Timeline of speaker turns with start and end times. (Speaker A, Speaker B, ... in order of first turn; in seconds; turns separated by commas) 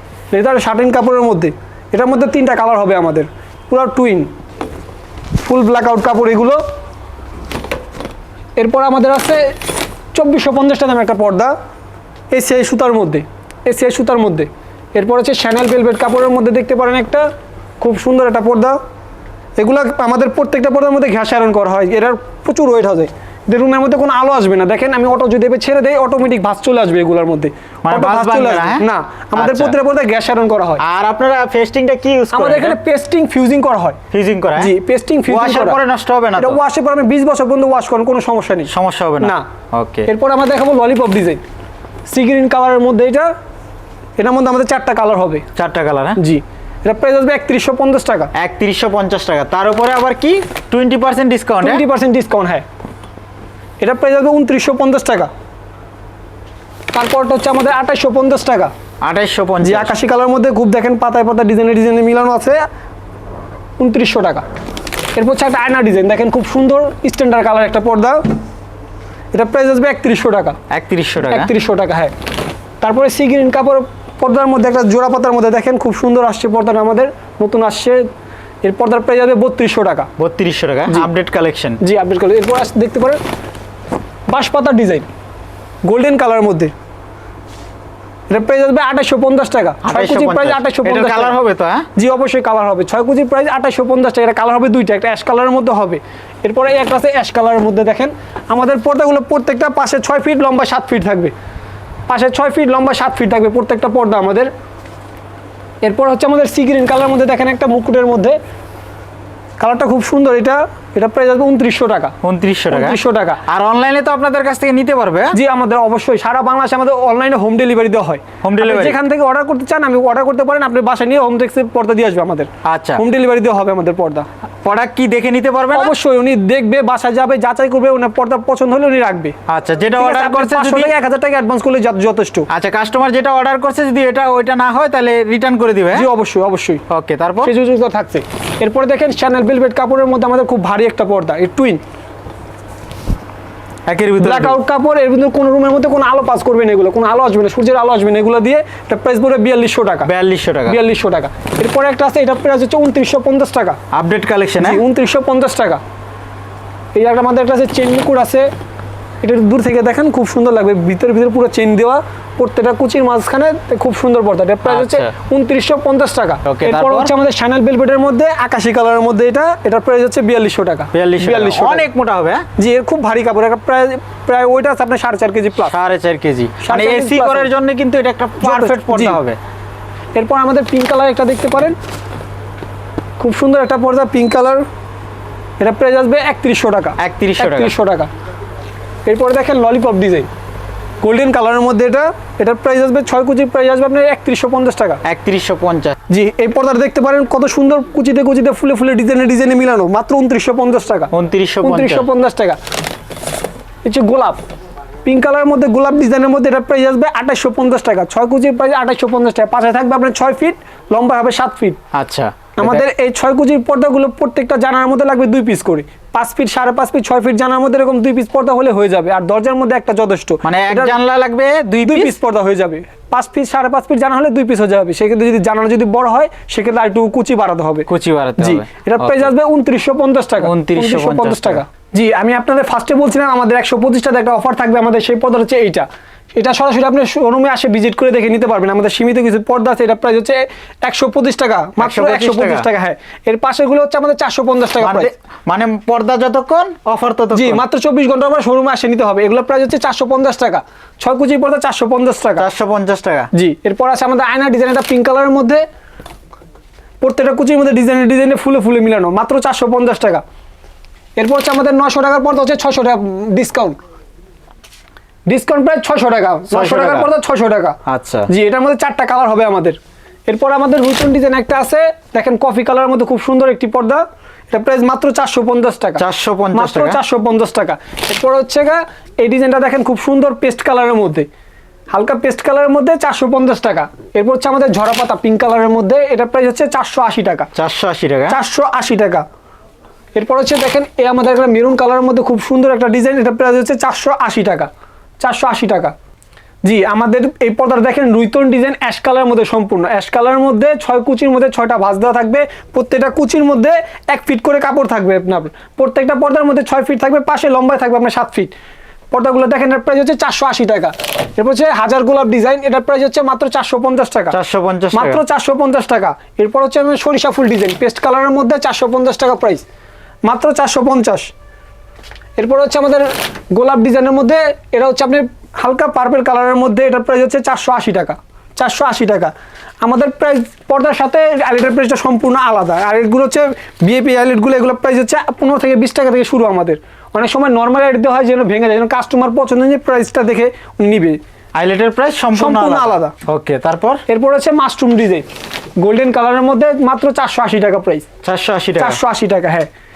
Speaker A: 0.3-4.3, Speaker A: 5.4-6.6, Speaker A: 8.6-9.6, Speaker A: 10.1-11.6, Speaker A: 12.3-17.2, Speaker A: 17.8-18.8, Speaker A: 19.6-30.8, Speaker B: 27.9-28.9, Speaker B: 29.4-29.8, Speaker B: 30.8-32.8, Speaker A: 32.3-34.0, Speaker B: 34.1-34.7, Speaker A: 34.6-35.8, Speaker B: 35.3-36.6, Speaker A: 36.4-39.5, Speaker B: 38.7-40.1, Speaker A: 40.1-41.4, Speaker A: 42.1-43.3, Speaker A: 44.2-45.5, Speaker B: 45.6-46.2, Speaker A: 46.2-48.3, Speaker B: 48.4-51.8, Speaker A: 51.6-52.6, Speaker A: 53.8-55.3, Speaker A: 56.9-58.7, Speaker B: 59.0-59.9, Speaker A: 59.6-62.6, Speaker A: 63.8-64.4, Speaker A: 65.2-68.2, Speaker A: 69.3-70.6, Speaker B: 70.7-71.5, Speaker A: 71.3-72.1, Speaker A: 72.8-78.1, Speaker A: 78.6-80.1, Speaker B: 80.2-81.8, Speaker A: 81.8-83.2, Speaker A: 84.3-85.1, Speaker A: 85.8-86.7, Speaker A: 88.3-91.4, Speaker B: 89.8-91.9, Speaker A: 92.0-101.3, Speaker A: 102.1-104.5, Speaker A: 105.8-108.4, Speaker A: 109.6-112.1, Speaker B: 112.2-115.3, Speaker A: 112.7-113.4, Speaker A: 115.3-124.3, Speaker B: 118.4-119.0, Speaker B: 122.7-123.0, Speaker B: 124.6-125.9, Speaker A: 125.7-129.4, Speaker B: 129.5-130.9, Speaker A: 130.0-132.5, Speaker B: 132.5-136.1, Speaker A: 135.9-136.8, Speaker B: 136.9-137.5, Speaker A: 137.4-141.8, Speaker B: 143.9-144.6, Speaker A: 144.2-150.1, Speaker B: 150.0-150.8, Speaker A: 150.7-153.8, Speaker B: 153.9-154.8, Speaker A: 154.6-155.8, Speaker A: 156.9-158.5, Speaker A: 159.2-171.8, Speaker B: 164.7-165.1, Speaker B: 166.5-167.1, Speaker B: 170.9-172.5, Speaker A: 172.6-175.7, Speaker B: 175.6-179.4, Speaker A: 176.6-177.5, Speaker A: 178.4-179.2, Speaker A: 180.2-181.8, Speaker A: 183.2-184.7, Speaker A: 185.6-188.1, Speaker B: 187.0-187.7, Speaker A: 189.1-190.3, Speaker A: 191.0-195.0, Speaker B: 195.0-195.9, Speaker A: 196.1-202.6, Speaker B: 201.1-202.1, Speaker A: 203.8-204.4, Speaker A: 205.0-211.8, Speaker B: 211.9-212.8, Speaker A: 212.6-220.9, Speaker B: 220.4-222.1, Speaker A: 221.8-245.1, Speaker B: 227.9-229.3, Speaker B: 230.4-231.6, Speaker B: 241.8-242.7, Speaker B: 244.8-247.6, Speaker A: 247.3-252.5, Speaker B: 252.4-253.3, Speaker A: 253.3-255.6, Speaker A: 257.0-260.2, Speaker A: 261.2-263.8, Speaker A: 265.3-267.8, Speaker B: 266.5-267.1, Speaker B: 267.9-268.3, Speaker A: 268.3-281.3, Speaker B: 276.0-277.0, Speaker A: 281.9-287.5, Speaker B: 287.6-288.4, Speaker A: 288.3-289.2, Speaker A: 290.2-294.7, Speaker A: 295.2-295.9, Speaker A: 296.6-308.5, Speaker A: 309.1-314.4, Speaker B: 314.3-315.2, Speaker A: 314.9-319.6, Speaker A: 320.3-321.3, Speaker A: 322.4-341.2, Speaker B: 341.6-344.0, Speaker A: 342.3-343.1, Speaker A: 344.1-345.3, Speaker A: 345.8-348.1, Speaker B: 348.2-349.0, Speaker A: 348.8-349.7